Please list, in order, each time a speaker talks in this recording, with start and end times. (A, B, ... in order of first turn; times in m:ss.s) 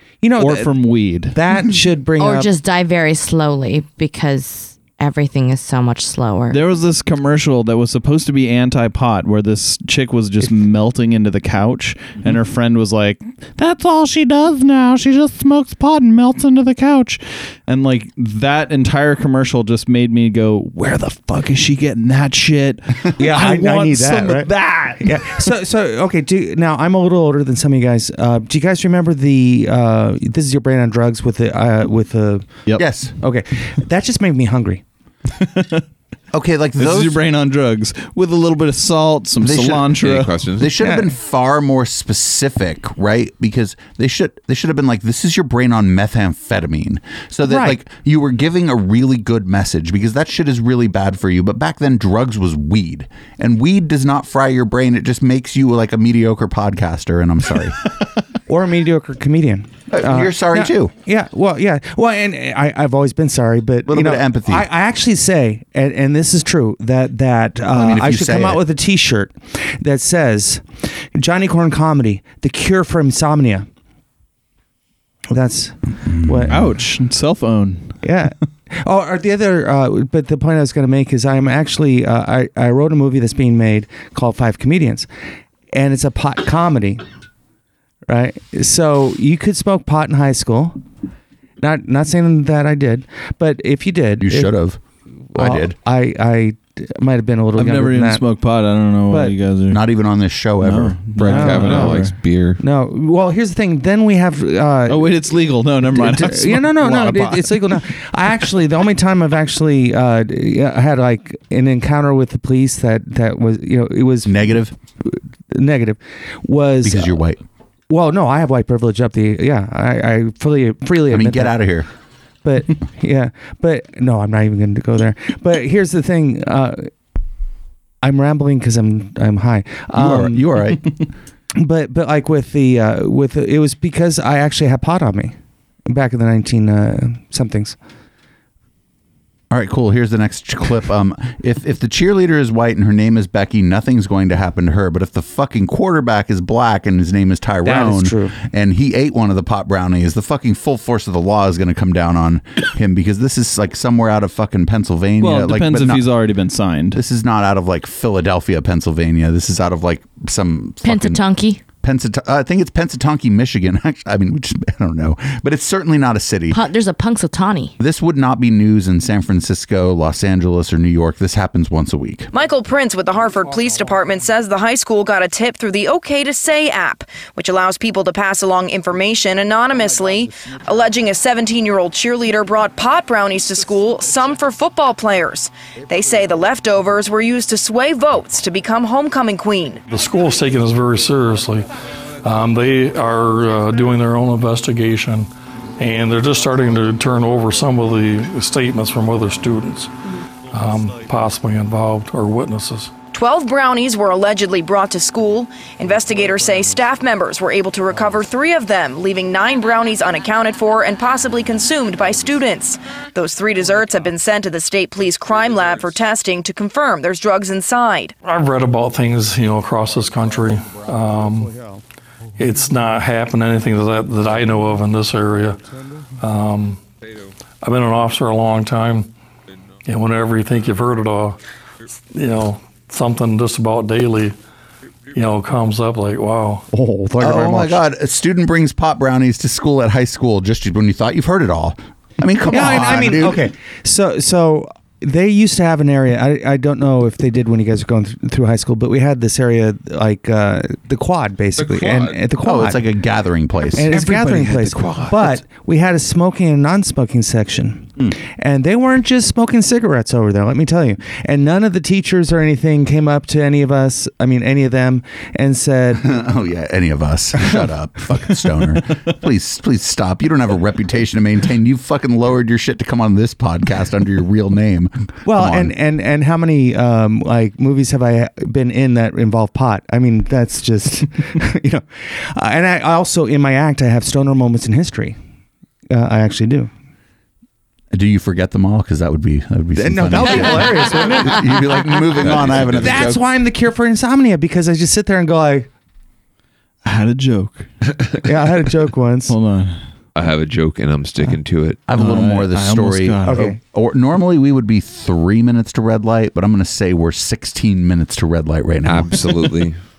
0:00.2-0:00.7 A
0:00.4-0:01.4 B
0:01.3-0:02.5 A
0:02.2-0:06.6 C
0:06.5-0:25.5 B
0:23.2-0:32.5 A
0:32.8-0:33.1 D
0:33.2-0:34.8 A
0:35.4-0:35.8 B
0:36.3-0:37.2 D
0:36.8-0:40.3 B
0:39.4-0:40.0 D
0:40.0-0:40.7 E
0:40.6-0:57.8 D
0:40.8-0:41.1 A
0:47.4-0:47.8 A
0:58.5-1:10.6 A
0:59.9-1:00.9 D
1:03.9-1:04.7 D
1:07.7-1:08.6 D
1:11.2-1:13.7 A
1:15.3-1:16.6 A
1:16.0-1:16.6 D
1:16.5-1:18.0 B
1:18.0-1:25.1 A
1:25.7-1:27.0 A
1:28.1-1:30.8 A
1:31.6-1:34.5 A
1:34.2-1:34.8 D
1:35.3-1:38.2 A
1:35.4-1:35.8 D
1:37.6-1:39.8 B
1:39.1-1:39.4 A
1:39.7-1:41.5 D
1:40.6-1:42.2 B
1:41.2-1:42.6 E
1:41.2-1:42.0 A
1:42.6-1:45.2 A
1:44.9-1:47.8 B
1:45.9-1:54.5 A
1:54.3-1:54.7 D
1:55.0-1:57.2 A
1:56.8-1:57.4 D
1:57.9-2:01.6 A
2:01.1-2:01.9 D
2:02.4-2:06.9 A
2:08.0-2:10.4 A
2:09.9-2:10.9 D
2:11.6-2:15.4 A
2:15.9-2:17.8 A
2:19.5-2:36.1 D
2:27.6-2:28.4 A
2:35.2-2:37.0 B
2:36.9-2:41.2 D
2:40.8-2:41.6 C
2:41.8-2:46.6 D
2:46.5-2:47.7 C
2:47.8-2:52.3 D
2:52.3-3:09.8 F
3:09.9-3:11.7 G
3:12.2-3:19.9 G
3:20.5-3:22.9 G
3:23.1-3:38.1 F
3:38.2-3:41.5 G
3:41.5-3:41.8 A
3:42.4-3:45.6 G
3:46.2-3:46.8 G
3:47.6-3:49.1 G
3:49.9-3:51.4 G
3:52.1-3:54.4 G
3:55.1-3:56.7 G
3:56.7-3:57.8 A
3:57.2-4:03.4 D
4:02.5-4:12.8 A
4:11.6-4:12.2 E
4:12.4-4:14.2 D
4:13.7-4:26.0 A
4:14.1-4:15.0 B
4:26.0-4:35.7 D
4:35.3-4:45.2 A
4:45.9-4:46.7 A
4:47.9-4:53.2 D
4:49.8-4:51.8 A
4:52.4-4:53.1 E
4:52.6-4:55.7 A
4:56.8-4:57.7 B
4:58.2-4:59.4 A
4:59.3-4:59.8 B
5:00.2-5:01.9 E
5:01.9-5:09.2 D
5:02.0-5:03.5 B
5:03.2-5:03.6 A
5:08.9-5:09.8 E